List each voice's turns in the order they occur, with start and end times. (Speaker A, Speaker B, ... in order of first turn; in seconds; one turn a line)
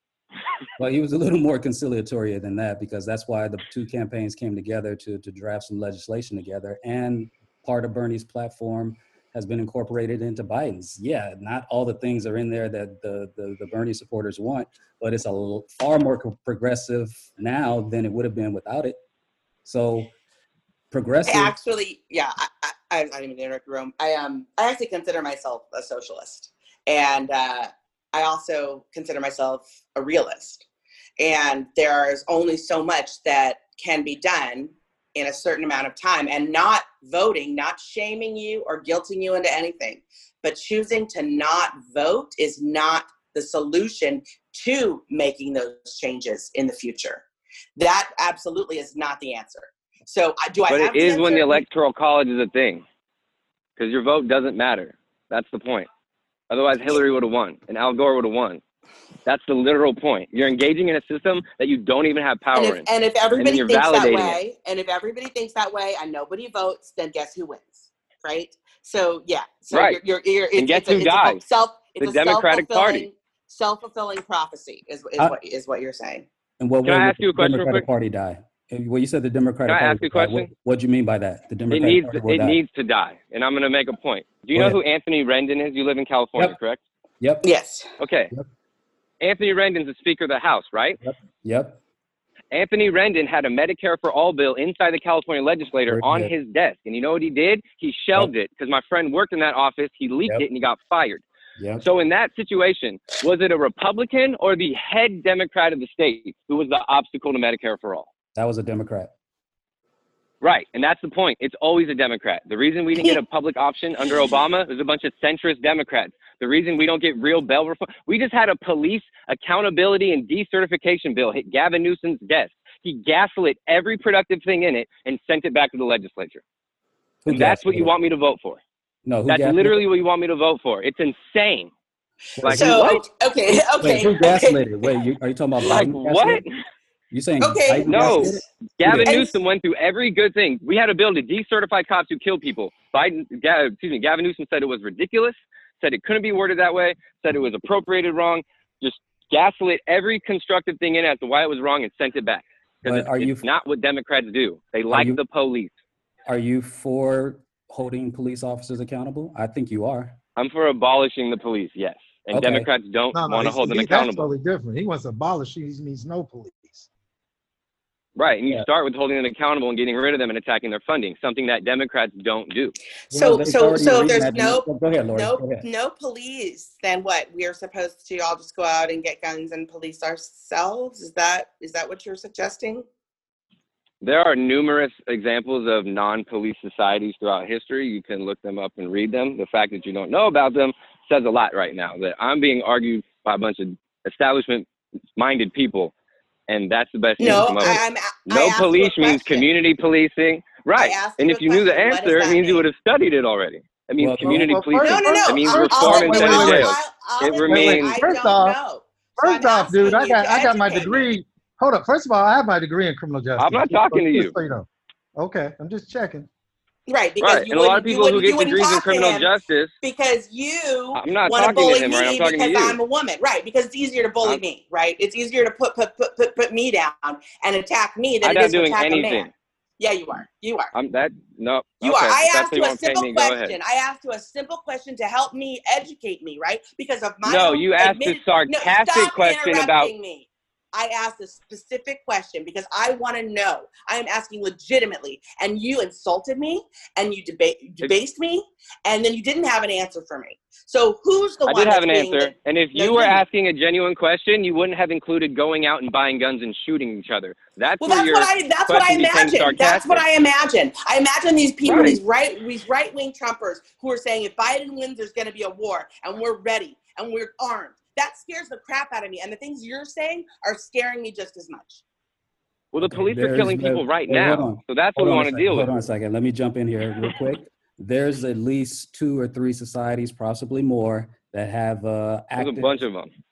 Speaker A: 0.8-19.0
Speaker A: 19.6-20.1
Speaker A: 20.9-21.6
Speaker B: 21.2-30.6
Speaker B: 31.2-47.2
Speaker B: 47.8-51.6
Speaker C: 50.7-52.8
Speaker C: 53.8-55.9
Speaker C: 56.5-58.6
Speaker C: 59.2-64.4
Speaker B: 62.5-76.2
Speaker C: 69.7-70.0
Speaker C: 70.5-71.4
Speaker C: 72.0-73.1
Speaker A: 76.6-82.6
Speaker C: 76.8-77.8
Speaker C: 79.7-80.5
Speaker C: 81.7-86.8
Speaker B: 87.4-87.9
Speaker C: 88.0-88.3
Speaker C: 89.2-91.0
Speaker A: 91.0-91.8
Speaker C: 92.5-101.2
Speaker A: 95.9-96.3
Speaker A: 101.6-101.8
Speaker C: 101.8-108.1
Speaker A: 108.3-109.1
Speaker C: 110.4-126.4
Speaker A: 127.2-127.9
Speaker C: 127.3-128.6
Speaker A: 129.0-129.8
Speaker C: 129.3-131.7
Speaker A: 132.4-132.8
Speaker C: 132.4-133.0
Speaker B: 132.4-134.7
Speaker A: 133.8-136.4
Speaker C: 135.6-136.5
Speaker A: 137.1-139.3
Speaker B: 137.4-139.4
Speaker C: 137.9-155.7
Speaker A: 152.8-153.4
Speaker A: 154.9-155.2
Speaker A: 156.2-160.2
Speaker C: 160.4-164.3
Speaker A: 162.3-162.7
Speaker D: 163.1-166.9
Speaker C: 168.2-172.7
Speaker A: 173.1-175.6
Speaker B: 173.1-182.8
Speaker C: 184.0-195.9
Speaker C: 196.5-208.0
Speaker B: 197.2-199.5
Speaker B: 200.7-202.7
Speaker A: 204.0-204.7
Speaker D: 204.2-206.7
Speaker B: 204.8-211.1
Speaker D: 207.4-208.6
Speaker D: 209.2-216.3
Speaker C: 213.4-214.3
Speaker B: 216.9-230.7
Speaker C: 217.2-219.7
Speaker C: 220.9-222.8
Speaker C: 228.2-229.3
Speaker C: 230.7-233.6
Speaker B: 231.8-253.2
Speaker C: 237.2-239.9
Speaker C: 251.4-260.0
Speaker B: 257.8-271.8
Speaker C: 261.6-262.0
Speaker C: 272.7-275.7
Speaker A: 272.8-282.8
Speaker C: 282.4-283.1